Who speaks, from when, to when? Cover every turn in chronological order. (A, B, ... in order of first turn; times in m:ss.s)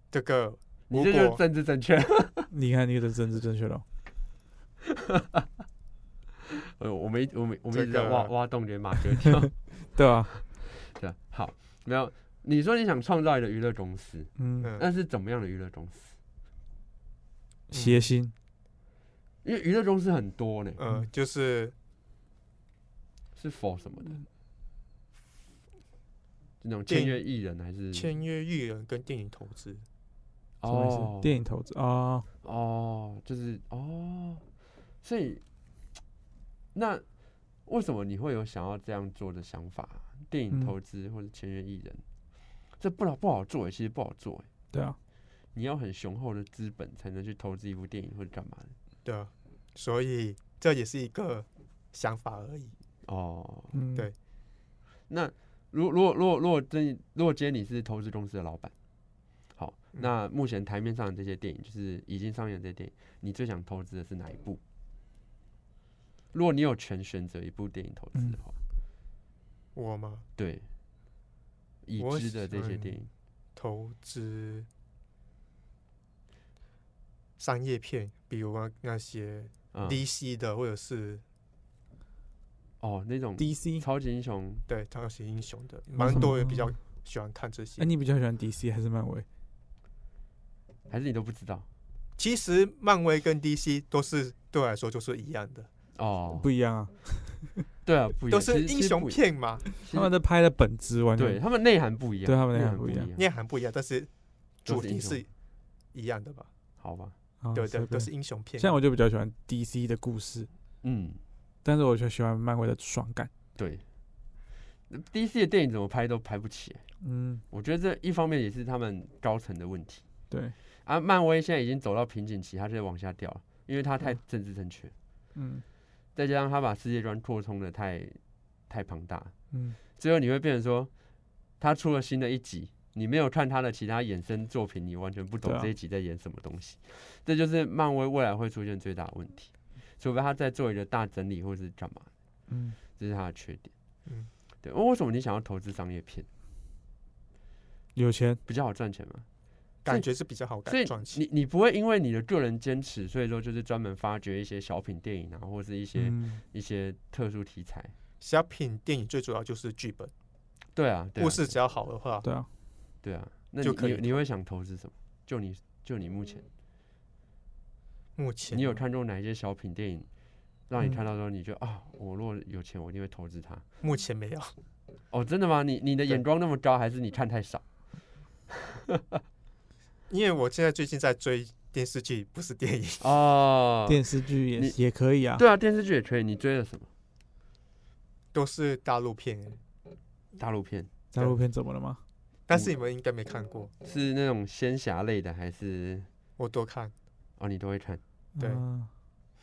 0:00.1-0:01.4 A
0:00.9-0:02.5 B
0:02.5-0:03.8 C
0:05.0-0:05.4 B
0:06.6-0:09.5 B
0:07.7-0:08.3 A
0:09.9-0:10.4 C
0:10.4-0:16.2 B
0:14.4-0:14.7 C
0:17.7-0:18.3 C
0:17.7-0:18.0 A
0:19.4-0:20.8 B
0:20.8-0:21.7 A
0:23.4-0:24.2 B
0:26.6-0:28.1 B
0:26.9-0:27.2 A
0:27.9-0:29.8 A
0:30.6-0:31.4 B
0:30.7-0:32.3 C
0:32.4-0:34.4 B
0:35.0-0:35.4 B
0:36.7-0:37.0 B
0:37.7-0:42.0 B
0:42.8-0:44.5 B
0:45.5-0:48.8 B
0:49.0-0:52.7 A
0:53.0-0:53.8 B
0:53.7-0:54.1 C
0:55.1-0:58.7 B
0:59.6-1:04.6 B
1:06.3-1:08.6 B
1:09.8-1:10.3 A
1:10.4-1:10.7 B
1:11.8-1:13.1 B
1:12.0-1:13.0 A
1:13.6-1:14.7 A
1:17.4-1:21.2 A
1:19.7-1:20.0 B
1:22.8-1:24.6 B
1:23.4-1:23.8 C
1:24.7-1:27.9 A
1:26.0-1:26.7 C
1:27.8-1:29.3 C
1:30.9-1:31.7 B
1:32.2-1:35.7 A
1:36.0-1:36.5 B
1:36.4-1:37.6 C
1:37.8-1:39.2 B
1:38.3-1:39.6 A
1:39.8-1:40.1 B
1:39.8-1:41.4 C
1:41.2-1:43.3 B
1:42.2-1:43.1 C
1:43.2-1:44.1 A
1:44.6-1:45.3 A
1:44.7-1:45.2 B
1:45.9-1:46.5 A
1:46.8-1:47.2 B
1:47.4-1:50.5 C
1:47.5-1:48.7 A
1:50.8-1:51.2 B
1:51.6-1:53.3 C
1:53.6-1:53.8 B
1:54.9-1:56.9 B
1:57.0-1:57.4 C
1:57.5-2:00.0 B
2:00.8-2:04.9 B
2:05.4-2:05.6 C
2:06.2-2:09.3 B
2:09.5-2:09.8 C
2:10.0-2:10.9 B
2:11.6-2:22.1 B
2:15.4-2:15.7 C
2:22.5-2:22.8 C
2:23.0-2:23.7 B
2:24.6-2:26.3 B
2:28.0-2:28.4 C
2:28.5-2:29.3 B
2:29.8-2:31.2 A
2:30.7-2:38.0 B
2:36.0-2:36.4 C
2:38.2-2:40.1 A
2:40.7-2:41.6 B
2:41.2-2:42.3 A
2:43.0-2:46.5 B
2:43.6-2:44.2 A
2:48.2-2:48.8 A
2:48.5-2:50.1 B
2:50.7-2:53.6 B
2:53.8-2:54.6 A
2:55.1-2:57.6 B
2:58.9-2:59.2 B
3:00.1-3:03.1 A
3:03.0-3:04.8 B
3:03.9-3:05.4 C
3:05.4-3:06.9 B
3:08.3-3:09.6 A
3:10.4-3:10.9 B
3:11.1-3:12.0 C
3:12.5-3:13.7 A
3:13.8-3:16.1 B
3:16.4-3:16.9 A
3:17.4-3:18.0 B
3:18.4-3:18.9 C
3:18.4-3:18.6 A